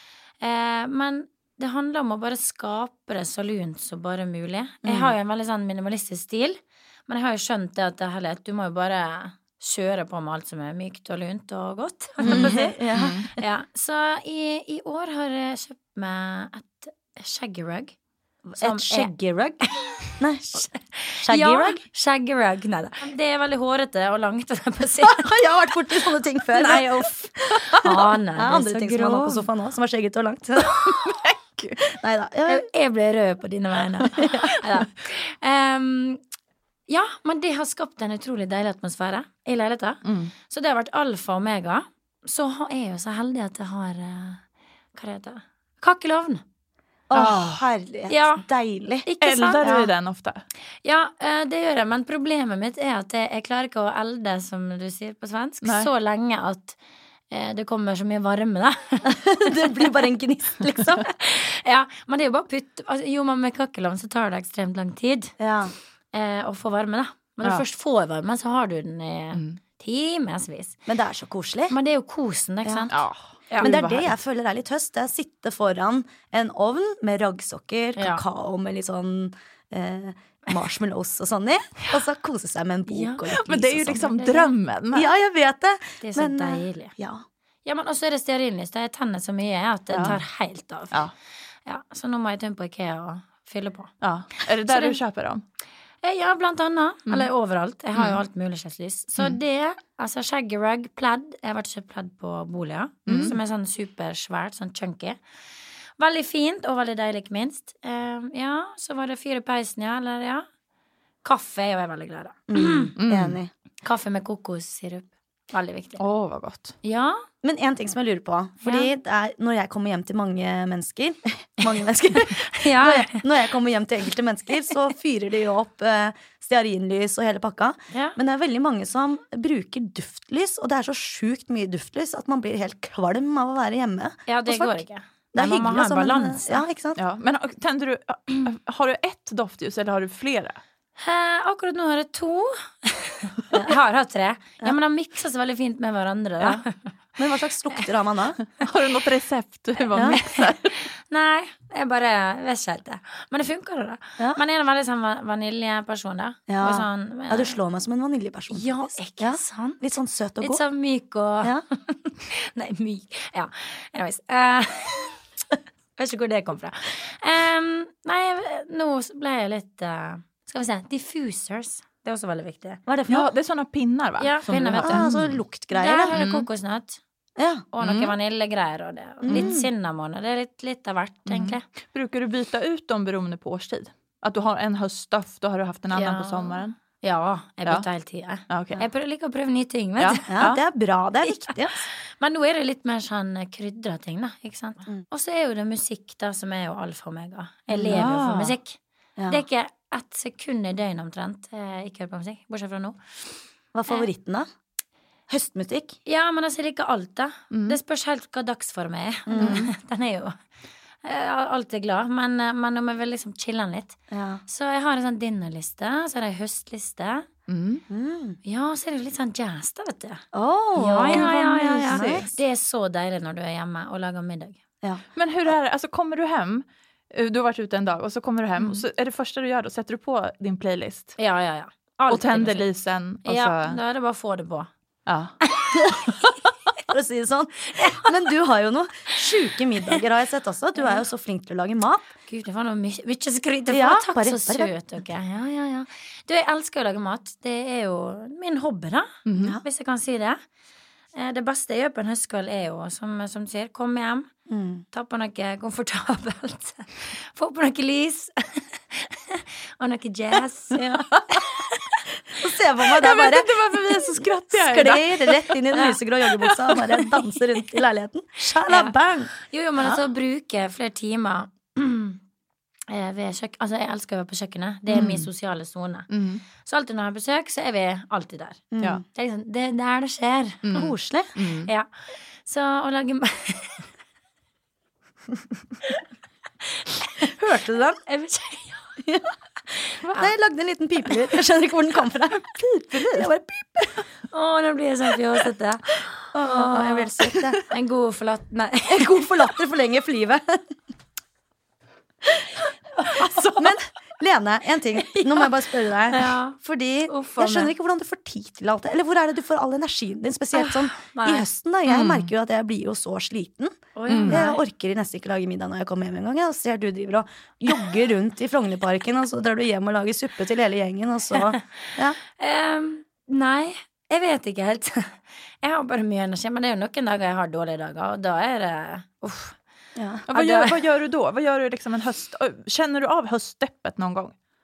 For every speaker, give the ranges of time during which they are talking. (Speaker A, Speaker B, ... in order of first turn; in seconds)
Speaker A: 0.4-17.9, 18.6-19.1, 19.6-25.3, 26.5-29.5, 32.5-36.2, 36.9-44.4, 44.9-46.4, 48.1-48.4, 49.0-49.7, 50.8-56.8, 57.3-59.9, 61.1-65.3, 66.1-70.8, 71.7-74.1, 78.0-78.2, 82.9-83.3, 83.9-84.5, 86.0-86.9, 87.6-91.1, 91.7-93.9, 94.7-95.0, 96.0-105.2, 106.0-110.5, 111.2-112.9, 113.8-116.0, 116.8-117.2, 118.6-118.9, 122.2-123.2, 127.9-128.2, 134.3-136.6, 141.0-146.9, 149.9-157.6, 158.5-159.8, 160.4-165.2, 166.0-172.8, 174.2-175.1, 175.7-177.0, 177.7-181.6, 185.9-190.3, 191.2-203.0, 206.1-210.4, 211.0-217.3, 218.4-220.2, 220.8-224.6, 231.2-232.7, 233.2-234.7, 235.4-236.4, 237.7-238.1, 242.3-250.4, 251.2-254.3, 254.9-262.0, 268.6-272.2, 272.9-276.1, 276.6-280.6, 282.4-283.9, 286.6-287.4, 288.1-289.0, 289.8-290.3, 294.3-299.5, 303.0-303.5, 305.0-305.5, 306.1-306.6, 307.1-307.7, 310.5-311.5, 313.9-314.6, 322.4-329.6, 330.3-330.8
Speaker B: 4.8-5.1, 12.2-13.2, 18.5-20.6, 21.2-21.8, 25.0-26.9, 27.7-31.1, 31.8-32.7, 34.2-34.6, 47.1-49.1, 49.6-49.9, 59.0-61.1, 65.4-65.7, 70.9-71.8, 73.6-84.1, 84.9-87.2, 112.5-113.5, 117.4-134.8, 135.3-137.0, 147.2-148.4, 149.9-150.2, 156.5-160.6, 172.9-173.3, 174.8-176.2, 177.4-177.6, 179.3-179.7, 190.3-191.8, 197.7-198.1, 199.2-199.4, 203.7-204.4, 205.3-206.0, 209.3-209.7, 214.1-214.4, 217.9-218.4, 220.3-222.3, 236.9-242.1, 243.7-244.7, 249.4-249.6, 254.5-254.8, 260.7-261.1, 262.3-269.3, 278.7-279.0, 280.7-281.3, 287.2-288.0, 289.0-289.3, 290.0-294.0, 296.3-297.6, 298.9-300.6, 303.5-322.2, 330.0-330.2
Speaker C: 12.2-13.3, 30.6-31.8, 40.0-40.3, 47.1-47.6, 49.2-50.4, 55.6-55.9, 69.3-69.6, 72.9-73.7, 83.3-85.1, 89.9-90.2, 94.0-95.4, 103.1-103.4, 113.0-113.4, 116.0-116.8, 136.9-140.6, 148.6-150.8, 173.1-175.4, 176.1-176.4, 177.8-178.1, 179.2-179.5, 181.3-186.8, 188.5-188.8, 190.0-190.6, 197.8-198.6, 207.5-207.8, 209.4-209.7, 217.5-217.8, 221.1-221.3, 221.9-222.2, 225.1-231.2, 232.1-233.8, 235.1-235.3, 249.2-249.6, 262.9-265.6, 266.4-267.1, 274.9-275.3, 276.1-276.4, 280.6-281.7, 292.5-293.3, 303.1-303.7, 311.9-312.3, 314.1-314.4, 330.3-334.3